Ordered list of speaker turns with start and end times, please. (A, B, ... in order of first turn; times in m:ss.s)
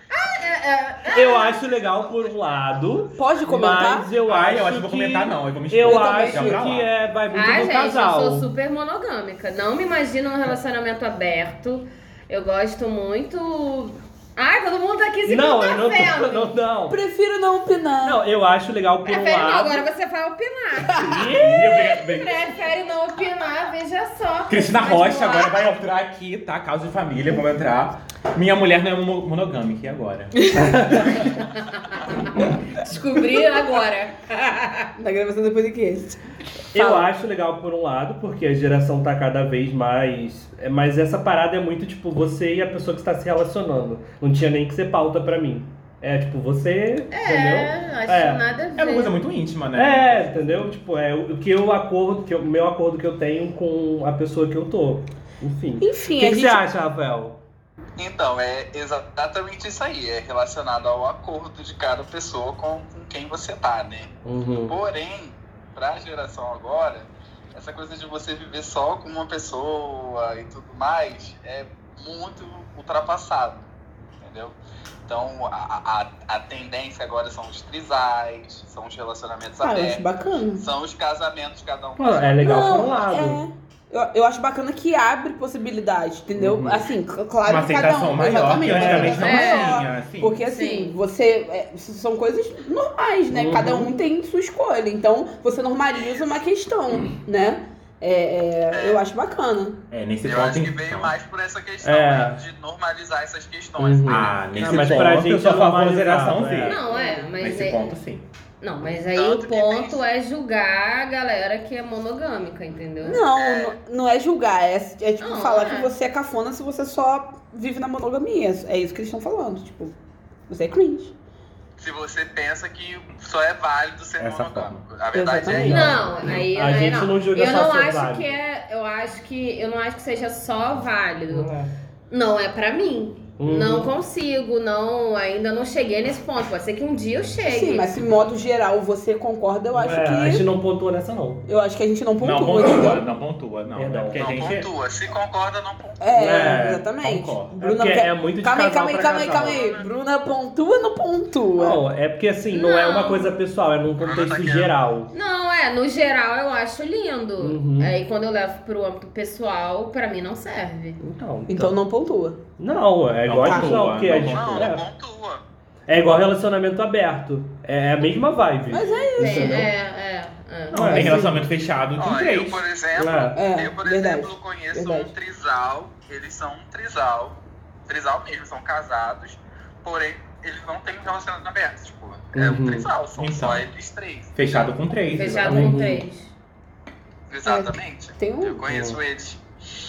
0:00.1-0:01.7 A
0:01.1-0:08.5 B
0:03.2-0:04.2 C
0:04.2-0:06.9 D
0:05.8-0:06.7 C
0:07.3-0:16.5 A
0:15.3-0:17.0 B
0:16.9-0:18.2 C
0:18.0-0:19.8 B
0:19.0-0:25.7 A
0:21.0-0:21.4 B
0:21.0-0:21.3 C
0:21.1-0:22.5 D
0:24.5-0:31.0 D
0:30.4-0:30.8 C
0:30.7-0:31.1 B
0:31.6-0:34.9 A
0:35.0-0:36.2 C
0:36.7-0:48.4 B
0:36.8-0:37.1 C
0:47.1-0:49.2 A
0:48.8-0:50.6 D
0:49.7-0:57.4 B
0:55.8-0:56.6 C
0:58.0-1:04.1 E
1:04.2-1:04.8 B
1:04.7-1:13.7 E
1:14.2-1:14.6 E
1:15.1-1:20.0 E
1:19.6-1:20.6 C
1:20.6-1:22.6 E
1:22.0-1:23.4 B
1:22.4-1:39.8 C
1:26.4-1:26.8 B
1:27.4-1:30.4 D
1:28.6-1:29.3 B
1:29.2-1:29.8 A
1:30.5-1:31.0 A
1:33.3-1:33.9 B
1:35.9-1:36.4 E
1:38.7-1:39.0 E
1:39.9-1:41.1 D
1:40.2-1:44.6 E
1:41.8-1:42.4 B
1:43.8-1:46.8 B
1:44.1-1:46.8 D
1:46.6-1:48.0 A
1:46.8-1:47.3 C
1:47.4-1:48.2 D
1:48.6-1:53.2 A
1:49.1-1:50.0 E
1:53.0-2:00.0 C
1:53.4-1:53.8 E
1:55.2-1:55.9 A
2:00.5-2:01.1 C
2:01.8-2:06.0 E
2:04.2-2:04.9 D
2:05.1-2:06.0 C
2:05.5-2:08.3 B
2:05.6-2:11.5 A
2:11.3-2:11.7 B
2:12.1-2:17.9 A
2:13.4-2:13.9 B
2:17.4-2:20.5 C
2:19.7-2:21.4 B
2:21.5-2:23.1 C
2:22.2-2:24.7 D
2:23.8-2:24.3 B
2:24.2-2:26.0 E
2:26.0-2:31.8 C
2:26.2-2:26.9 B
2:27.0-2:27.5 D
2:27.6-2:29.6 B
2:29.3-2:29.9 A
2:31.6-2:35.1 B
2:32.5-2:33.3 A
2:34.0-2:34.7 E
2:35.1-2:41.0 A
2:37.4-2:38.0 B
2:41.0-2:41.8 B
2:41.5-2:42.4 C
2:42.6-2:44.8 B
2:43.2-2:44.8 D
2:43.4-2:43.9 C
2:44.2-2:45.4 E
2:45.9-2:49.7 B
2:48.7-2:49.7 C
2:49.1-2:51.1 A
2:50.7-2:52.6 D
2:50.7-2:51.4 B
2:50.8-2:51.5 C
2:52.0-3:04.7 E
2:53.0-2:53.4 B
2:53.4-2:55.1 C
3:02.3-3:02.9 B
3:03.2-3:03.6 D
3:04.4-3:05.8 D
3:05.1-3:06.3 A
3:05.5-3:06.0 B
3:07.3-3:09.4 E
3:07.4-3:08.6 C
3:08.7-3:09.0 B